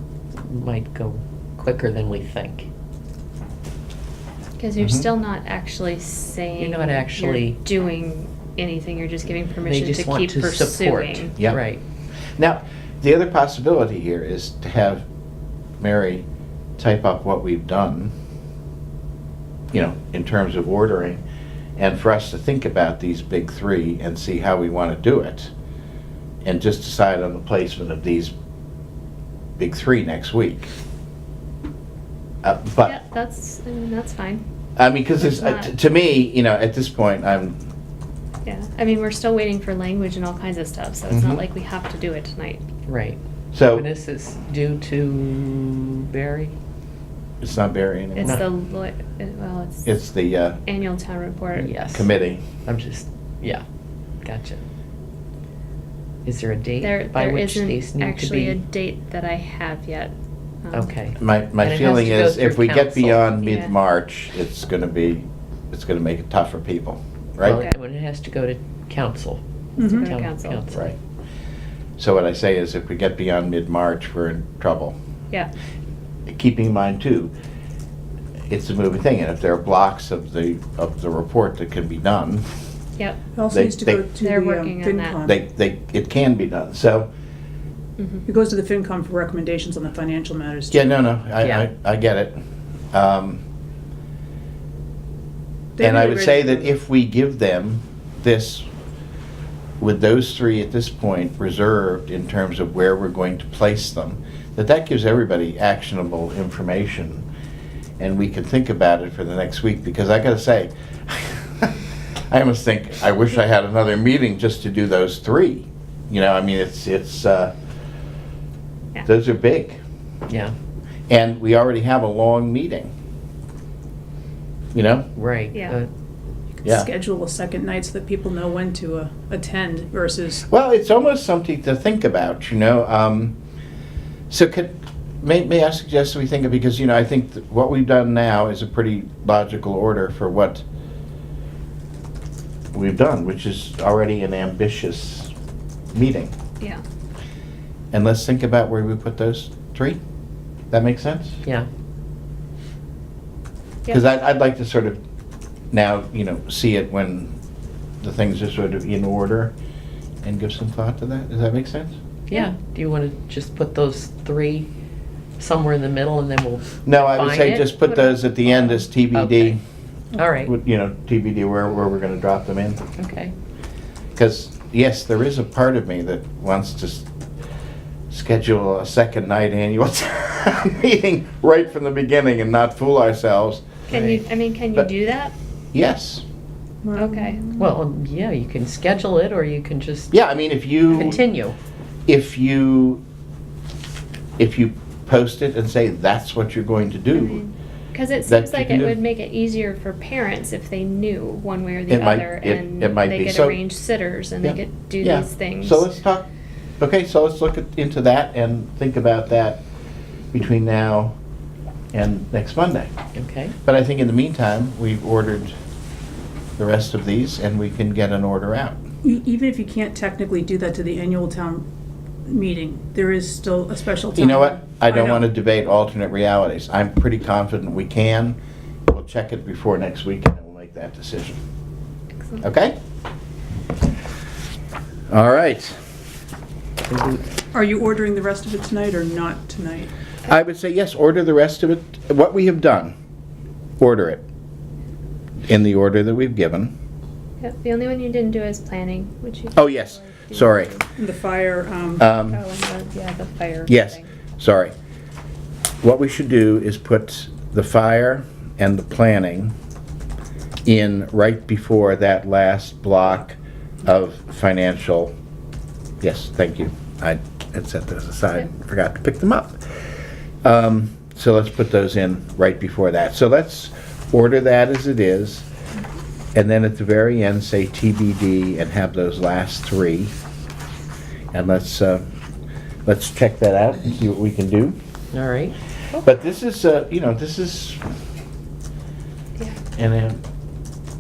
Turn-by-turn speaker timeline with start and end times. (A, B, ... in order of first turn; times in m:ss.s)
0:00.4-0:02.7 A
0:04.6-0:11.3 B
0:04.8-0:05.1 C
0:06.6-0:07.6 A
0:09.6-0:11.8 A
0:12.4-0:15.0 C
0:15.8-0:16.2 C
0:16.8-0:18.1 C
0:19.7-0:21.2 C
0:21.8-0:25.5 C
0:26.4-0:28.3 C
0:29.6-0:30.7 C
0:32.4-0:32.9 C
0:32.8-0:34.4 B
0:34.8-0:37.6 C
0:35.2-0:35.7 B
0:38.4-0:42.6 B
0:41.1-0:41.4 C
0:42.9-0:46.6 A
0:43.5-0:43.9 C
0:47.4-0:48.4 C
0:48.1-0:49.9 B
0:49.9-0:50.6 C
0:50.7-0:51.8 B
0:51.6-0:52.1 A
0:51.9-0:52.4 C
0:52.6-0:53.6 A
0:54.2-0:54.6 A
0:56.2-0:58.6 A
0:56.8-1:00.9 B
1:00.7-1:03.3 A
1:01.2-1:07.6 C
1:03.4-1:03.7 B
1:07.4-1:11.0 A
1:07.4-1:07.8 B
1:09.8-1:10.6 B
1:09.8-1:10.1 D
1:12.0-1:15.0 C
1:16.3-1:17.3 C
1:18.5-1:22.4 C
1:23.4-1:25.4 D
1:23.5-1:24.0 C
1:24.2-1:25.2 B
1:25.2-1:27.1 C
1:28.0-1:28.2 B
1:28.3-1:31.0 D
1:30.7-1:32.4 C
1:31.4-1:31.7 A
1:32.9-1:33.4 C
1:35.8-1:36.7 D
1:35.8-1:38.7 C
1:39.8-1:47.2 C
1:48.0-1:57.5 C
1:59.1-1:59.8 C
2:00.3-2:00.5 A
2:01.1-2:02.9 C
2:04.7-2:05.1 C
2:05.2-2:05.9 A
2:05.5-2:05.8 B
2:06.6-2:10.4 D
2:06.6-2:06.9 C
2:10.5-2:13.4 C
2:14.3-2:20.6 C
2:22.7-2:25.3 C
2:25.9-2:26.3 C
2:27.9-2:30.0 C
2:30.7-2:31.4 C
2:33.9-2:35.0 C
2:35.7-2:37.4 C
2:38.0-2:39.5 C
2:40.2-2:42.0 C
2:42.3-2:44.7 A
2:45.4-2:47.7 A
2:46.8-2:49.6 C
2:47.8-2:48.2 B
2:49.1-2:49.6 A
2:50.2-2:50.5 A
2:50.4-2:52.8 C
2:53.0-2:53.3 A
2:54.2-2:57.1 C
2:58.1-3:03.7 C
3:03.9-3:04.2 A
3:03.9-3:05.3 B
3:05.7-3:06.2 C
3:06.8-3:07.7 D
3:06.9-3:07.4 B
3:07.6-3:10.1 A
3:10.1-3:11.2 C
3:10.9-3:11.6 A
3:12.1-3:13.0 C
3:14.4-3:17.4 C
3:17.1-3:25.9 B
3:18.2-3:19.0 C
3:21.9-3:23.6 C
3:24.4-3:26.3 C
3:26.8-3:29.6 C
3:30.3-3:31.1 C
3:31.9-3:32.9 C
3:33.2-3:33.6 A
3:33.6-3:35.5 C
3:36.6-3:38.8 C
3:39.0-3:41.6 D
3:42.2-3:45.2 D
3:44.2-3:48.4 C
3:48.9-3:51.4 C
3:52.2-3:52.4 B
3:52.4-3:52.8 C
3:55.1-3:55.8 C
3:56.9-3:57.2 A
3:57.5-3:59.9 D
4:00.3-4:02.9 C
4:03.8-4:04.2 C
4:05.5-4:06.7 C
4:07.4-4:10.8 B
4:09.6-4:10.7 C
4:11.0-4:12.0 D
4:12.0-4:12.4 C
4:12.3-4:14.0 B
4:13.7-4:14.7 C
4:15.8-4:19.5 C
4:20.6-4:25.1 C
4:26.0-4:29.6 C
4:30.4-4:35.4 C
4:36.3-4:40.1 C
4:41.3-4:42.0 C
4:42.8-4:44.8 C
4:45.1-4:46.0 A
4:46.0-4:47.8 C
4:49.8-4:50.2 C